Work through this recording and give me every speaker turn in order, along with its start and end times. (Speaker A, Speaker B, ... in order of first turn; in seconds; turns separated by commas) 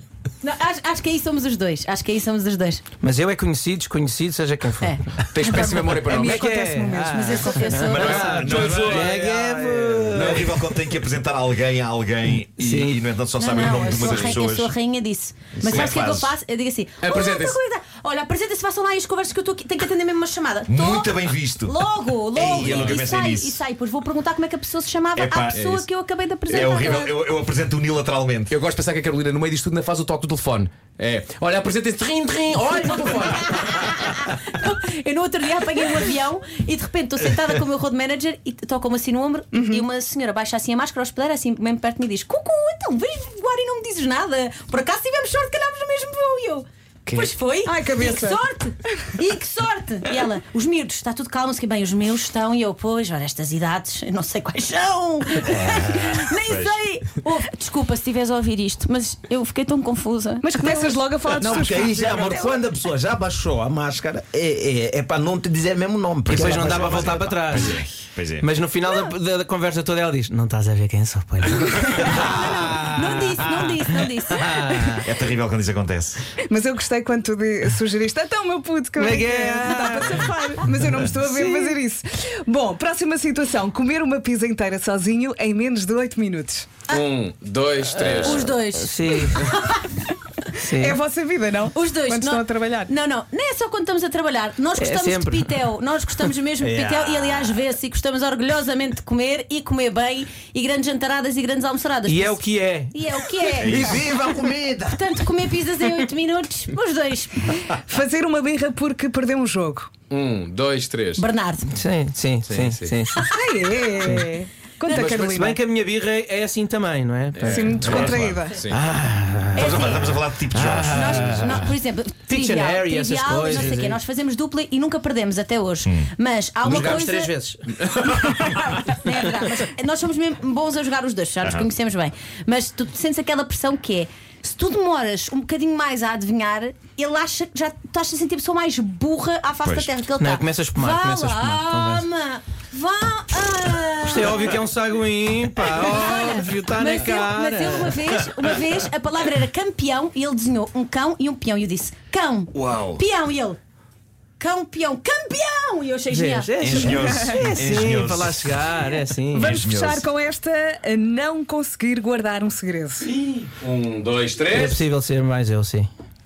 Speaker A: 0.4-2.8, Speaker B: 3.0-5.3, Speaker A: 4.8-6.3, Speaker C: 5.3-6.5, Speaker D: 6.1-7.9, Speaker B: 6.2-10.6, Speaker A: 7.1-8.9, Speaker C: 7.9-9.3, Speaker E: 7.9-14.8, Speaker C: 10.1-10.4, Speaker B: 12.6-13.1, Speaker A: 13.4-27.1, Speaker C: 13.9-14.4, Speaker E: 15.6-16.3, Speaker C: 15.6-16.0, Speaker C: 17.0-17.6, Speaker E: 20.7-21.8, Speaker E: 22.3-23.6, Speaker C: 22.5-23.0, Speaker E: 25.2-25.8, Speaker C: 25.5-25.8, Speaker C: 26.5-27.1, Speaker E: 26.5-28.6, Speaker C: 28.5-33.8, Speaker A: 33.3-60.9, Speaker D: 39.5-39.8, Speaker C: 47.1-47.3, Speaker D: 47.6-48.4, Speaker E: 56.5-56.8, Speaker D: 60.4-62.5, Speaker F: 61.4-67.2, Speaker B: 66.3-67.8, Speaker E: 66.4-68.5, Speaker B: 68.4-75.1, Speaker A: 72.1-74.9, Speaker E: 75.0-76.2, Speaker D: 76.5-86.7, Speaker B: 79.0-80.3, Speaker B: 81.3-81.8, Speaker C: 86.9-88.6, Speaker A: 88.1-90.5, Speaker B: 88.3-89.5, Speaker B: 90.6-91.0, Speaker D: 90.8-92.9, Speaker A: 91.7-103.8, Speaker B: 94.8-95.6, Speaker F: 96.6-97.6, Speaker B: 102.1-103.1, Speaker F: 103.6-105.0, Speaker E: 103.6-104.0, Speaker A: 104.9-107.6, Speaker D: 107.7-109.9, Speaker C: 110.1-111.2, Speaker A: 111.2-111.7, Speaker B: 111.7-113.2, Speaker C: 112.5-112.9, Speaker D: 113.3-115.6, Speaker B: 114.0-114.4, Speaker A: 114.8-115.2, Speaker B: 114.9-118.1, Speaker C: 117.3-118.8, Speaker D: 117.5-118.6, Speaker E: 117.8-118.5, Speaker B: 118.7-121.7, Speaker A: 119.6-120.2, Speaker E: 119.6-121.7, Speaker A: 120.9-127.3, Speaker B: 122.3-124.0, Speaker B: 126.6-127.7, Speaker C: 126.7-127.1, Speaker C: 127.8-128.5, Speaker A: 128.3-144.5, Speaker B: 128.8-129.2, Speaker E: 131.4-131.7, Speaker E: 139.6-140.0, Speaker B: 140.2-142.1, Speaker B: 144.0-148.2, Speaker A: 145.7-153.6, Speaker E: 152.6-153.0, Speaker A: 154.4-156.9, Speaker B: 156.1-159.6, Speaker E: 156.6-158.7, Speaker D: 156.9-157.4, Speaker D: 159.3-163.1, Speaker E: 159.4-160.1, Speaker C: 163.2-164.8, Speaker B: 164.5-165.9